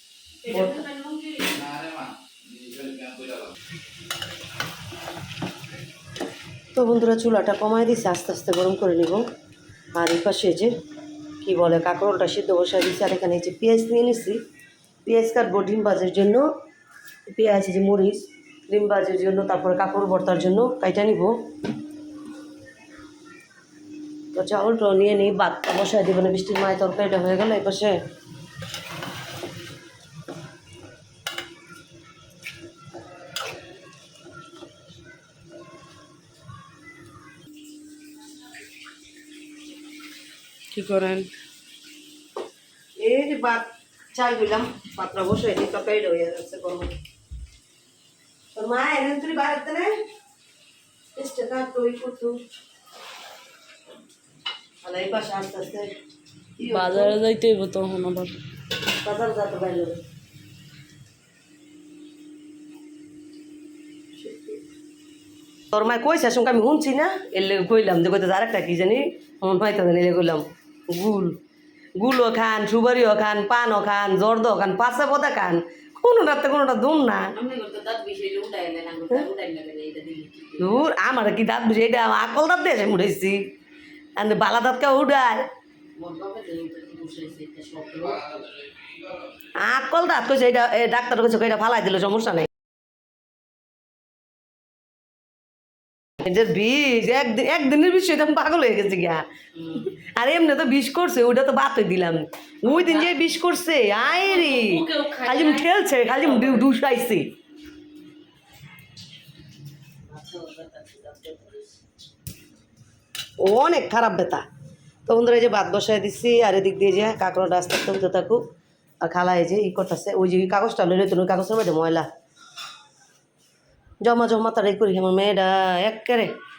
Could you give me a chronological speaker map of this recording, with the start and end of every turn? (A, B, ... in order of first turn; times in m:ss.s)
0:00.5-0:01.4 A
0:00.5-0:00.8 B
0:01.5-0:03.5 C
0:06.7-0:09.2 B
0:09.9-0:10.7 B
0:11.4-0:14.4 B
0:15.0-0:16.5 B
0:17.3-0:21.4 B
0:24.3-0:28.0 B
0:40.7-0:41.3 A
0:43.0-0:46.9 B
0:48.6-0:50.0 B
0:51.2-0:52.4 B
0:54.8-0:55.9 B
0:56.6-0:57.2 B
0:56.7-0:58.4 A
0:59.0-1:00.0 B
1:04.2-1:04.6 B
1:05.7-1:11.4 B
1:12.0-1:17.3 B
1:17.4-1:20.6 A
1:20.6-1:23.4 B
1:24.2-1:25.4 B
1:26.0-1:28.4 A
1:28.4-1:29.0 C
1:29.6-1:32.5 B
1:36.2-1:47.3 B
1:42.7-1:43.1 A
1:44.1-1:46.7 A
1:50.1-1:51.6 A
1:53.4-1:54.4 B
1:55.1-1:58.4 B
1:59.0-2:02.1 B
2:04.0-2:06.3 B